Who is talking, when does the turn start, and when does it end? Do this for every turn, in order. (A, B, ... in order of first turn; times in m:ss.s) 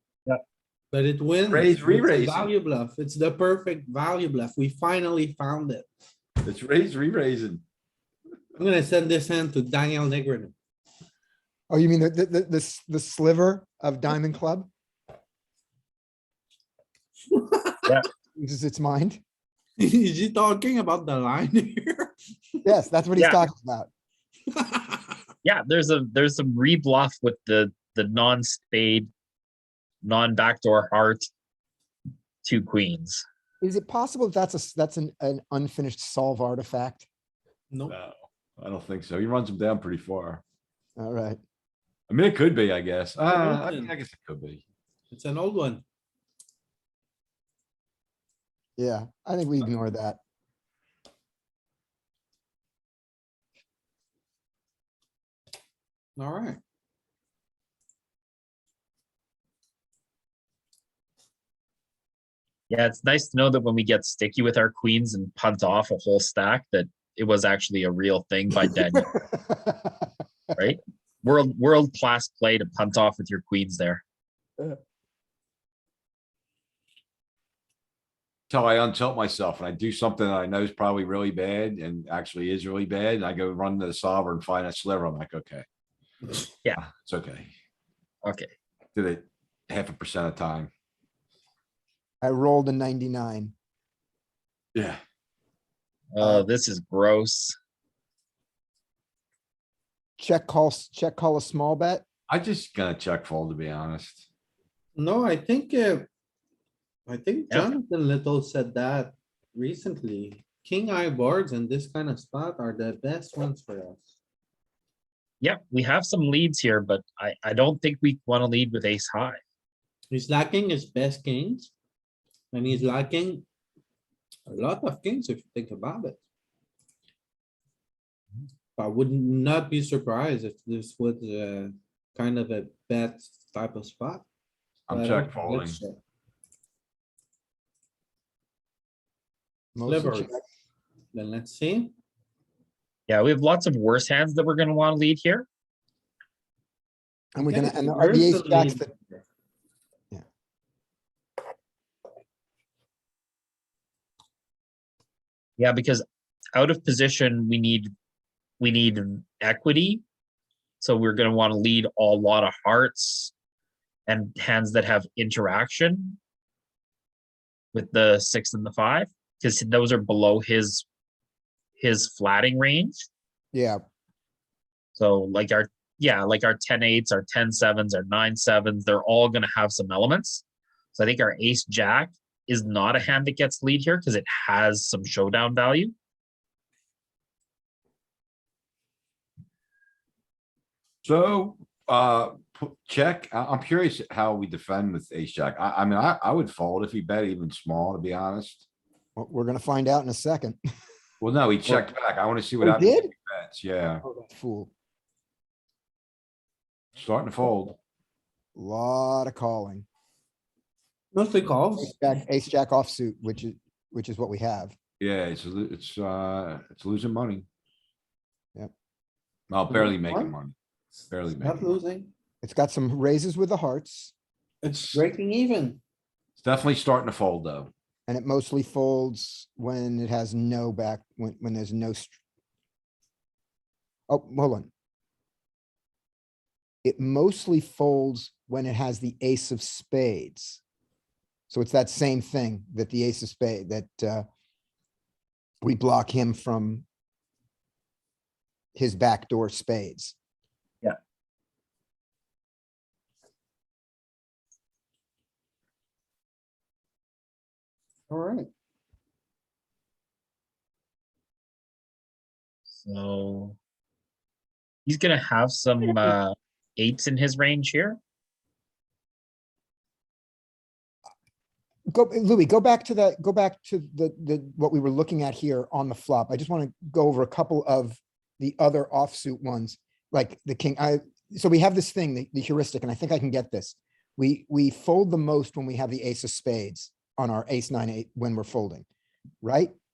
0:00.9-0:05.9 A
0:01.5-0:02.5 B
0:06.4-0:07.6 B
0:08.6-0:10.5 A
0:11.7-0:14.7 C
0:17.3-0:17.9 A
0:18.4-0:19.2 C
0:19.8-0:22.6 A
0:22.6-0:23.9 C
0:23.2-0:23.4 D
0:24.5-0:25.2 A
0:25.4-0:29.1 D
0:30.0-0:31.2 D
0:32.4-0:33.2 D
0:33.6-0:37.1 C
0:37.9-0:40.4 B
0:41.0-0:41.4 C
0:42.1-0:44.6 B
0:43.2-0:43.9 A
0:45.1-0:45.8 A
0:48.8-0:50.2 C
0:56.2-0:56.6 A
1:02.7-1:09.1 D
1:08.7-1:10.0 C
1:10.6-1:14.0 D
1:18.5-1:25.6 B
1:26.8-1:27.5 B
1:28.2-1:28.5 D
1:28.9-1:30.7 B
1:32.2-1:33.5 C
1:34.7-1:35.0 B
1:36.1-1:37.6 D
1:36.2-1:36.5 C
1:40.2-1:42.0 C
1:42.3-1:44.2 B
1:45.0-1:46.1 A
1:47.1-1:54.0 A
1:55.4-1:59.4 D
2:00.1-2:01.7 A
2:02.5-2:03.4 A
2:04.5-2:06.2 A
2:08.8-2:14.2 A
2:14.9-2:15.8 B
2:14.9-2:16.0 A
2:19.7-2:20.4 C
2:19.8-2:20.3 A
2:21.1-2:21.9 A
2:23.1-2:25.4 D
2:27.3-2:28.9 C
2:27.4-2:29.2 A
2:35.6-2:36.0 D
2:36.5-2:37.9 D
2:38.6-2:40.0 D
2:40.8-2:43.3 D
2:44.1-2:46.2 D
2:47.7-2:50.8 D
2:51.8-2:53.1 D
2:53.5-2:53.8 C
2:54.9-3:05.9 D
3:11.0-3:18.6 B
3:19.2-3:20.6 C
3:21.2-3:24.0 B
3:22.6-3:23.1 C
3:24.2-3:24.7 C
3:27.0-3:27.8 B
3:28.6-3:29.8 C
3:31.1-3:31.9 A
3:31.8-3:34.7 C
3:35.0-3:37.4 B
3:39.5-3:40.5 B
3:39.7-3:40.3 A
3:41.1-3:41.8 B
3:41.3-3:42.1 A
3:42.4-3:44.1 C
3:44.6-3:45.8 A
3:44.7-3:45.0 B
3:46.4-3:47.7 B
3:48.1-3:52.2 C
3:54.1-3:54.7 C
3:56.8-4:00.6 C
4:01.5-4:04.2 C
4:05.6-4:06.8 C
4:08.7-4:10.1 C
4:18.1-4:18.5 A
4:22.8-4:23.6 D
4:24.8-4:28.0 D
4:31.9-4:48.8 C
4:49.4-4:49.7 C